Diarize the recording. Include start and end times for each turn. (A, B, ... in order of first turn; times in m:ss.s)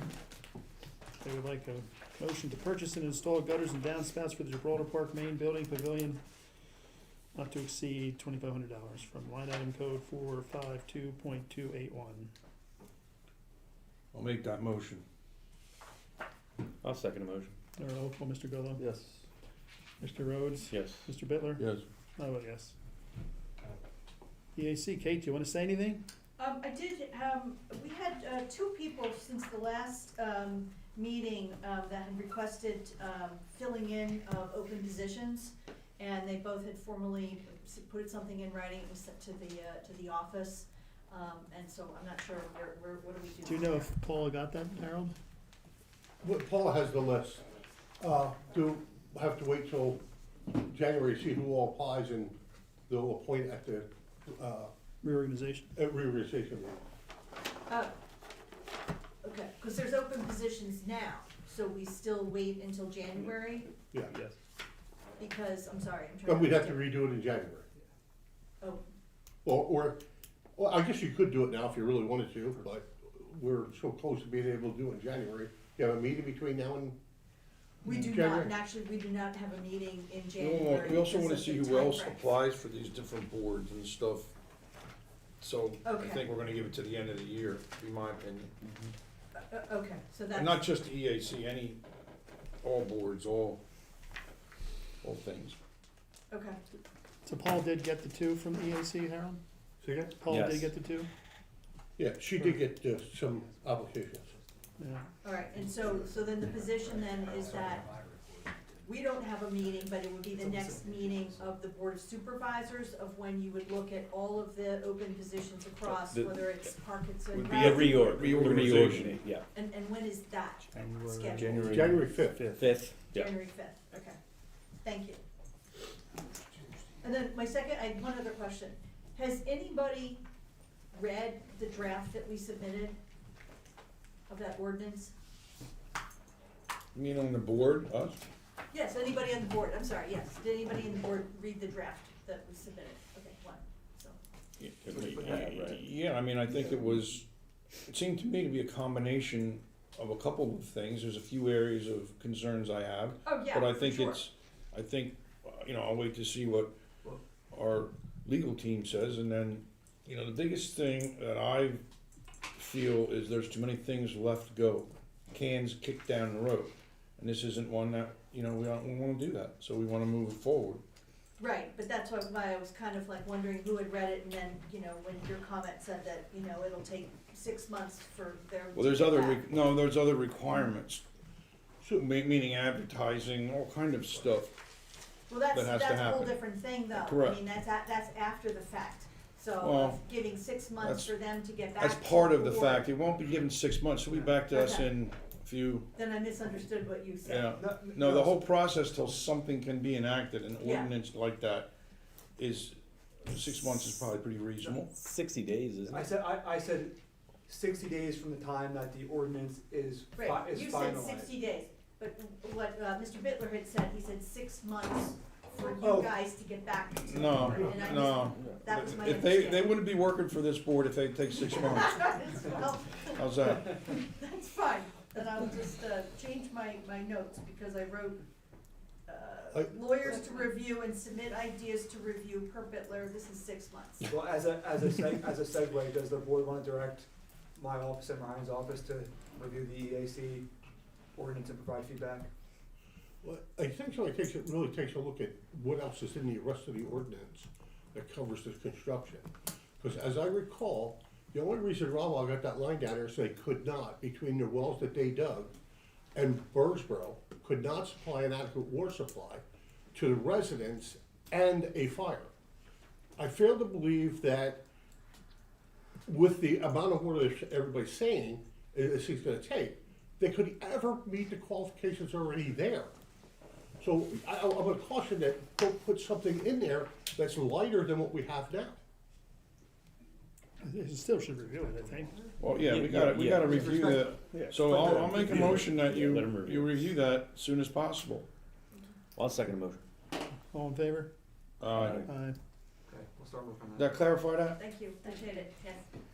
0:01.2-0:06.2 A
0:07.3-0:12.3 A
0:14.1-0:15.0 B
0:16.8-0:17.6 C
0:17.8-0:18.8 A
0:18.8-0:19.2 C
0:20.0-0:22.7 A
0:20.7-0:21.1 C
0:21.6-0:21.8 B
0:24.5-0:26.0 A
0:26.4-0:43.8 D
0:43.4-0:45.1 A
0:46.2-0:47.4 E
0:48.0-0:52.3 E
0:52.9-0:54.7 E
0:55.0-0:55.7 A
0:55.8-0:56.8 E
0:57.7-0:57.9 D
0:59.2-1:03.7 D
1:05.2-1:06.9 D
1:06.2-1:07.6 E
1:09.4-1:10.0 E
1:10.6-1:17.0 E
1:17.8-1:22.2 D
1:17.9-1:18.5 E
1:20.4-1:24.3 B
1:25.4-1:28.5 B
1:25.8-1:26.2 D
1:29.4-1:30.7 D
1:30.3-1:31.8 B
1:32.6-1:33.6 B
1:35.0-1:35.6 B
1:36.3-1:36.6 D
1:37.2-1:39.4 A
1:39.8-1:40.1 E
1:40.2-1:41.1 A
1:40.3-1:40.7 C
1:42.0-1:44.3 E
1:43.2-1:44.8 C
1:44.8-1:45.0 A
1:45.2-1:47.9 D
1:45.3-1:49.0 C
1:48.8-1:58.3 D
1:49.6-1:50.2 C
1:50.3-1:51.4 F
1:50.7-1:51.6 C
1:55.8-1:56.4 C
1:57.3-1:59.2 B
1:57.6-1:59.4 C
1:59.5-2:01.7 D
2:00.7-2:02.6 A
2:01.4-2:01.8 B
2:01.6-2:02.5 E
2:02.6-2:03.3 C
2:03.1-2:04.2 D
2:04.8-2:05.2 D
2:07.0-2:10.2 D
2:10.9-2:13.0 D
2:14.3-2:15.1 D
2:16.9-2:18.2 B
2:18.7-2:24.2 D
2:24.6-2:27.3 B
2:25.0-2:25.8 F
2:27.9-2:36.7 B
2:33.2-2:34.2 D
2:37.5-2:41.8 B
2:42.5-2:50.8 B
2:51.4-2:59.4 D
2:58.7-3:01.0 B
3:01.8-3:04.5 B
3:05.3-3:12.9 D
3:05.5-3:07.4 B
3:09.6-3:10.0 B
3:10.8-3:11.2 B
3:11.8-3:15.9 B
3:14.5-3:14.9 D
3:15.9-3:17.7 D
3:17.2-3:21.7 B
3:17.6-3:18.5 F
3:20.6-3:20.9 D
3:22.4-3:24.9 B
3:25.0-3:26.0 C
3:25.8-3:31.3 F
3:30.1-3:39.8 D
3:35.6-3:36.2 F
3:37.0-3:42.2 B
3:41.6-3:48.2 D
3:43.0-3:43.8 B
3:49.1-3:54.1 D
3:54.1-4:00.5 F
4:01.1-4:02.3 F
4:03.2-4:09.3 E
4:09.8-4:15.5 E
4:16.1-4:19.4 E
4:19.9-4:22.3 E
4:23.2-4:24.6 E
4:26.0-4:32.9 E
4:33.8-4:38.8 E
4:40.6-4:42.1 A
4:41.4-4:42.5 F
4:42.4-4:48.3 B
4:42.6-4:43.5 C
4:43.4-4:45.4 F
4:44.3-4:45.3 A
4:45.4-4:46.8 C
4:49.2-4:49.8 C
4:50.5-4:51.1 A
4:51.6-4:52.0 B
4:51.7-4:52.0 C
4:52.0-4:52.4 A
4:52.9-4:54.0 F
4:53.8-4:54.6 B
4:54.6-4:55.8 D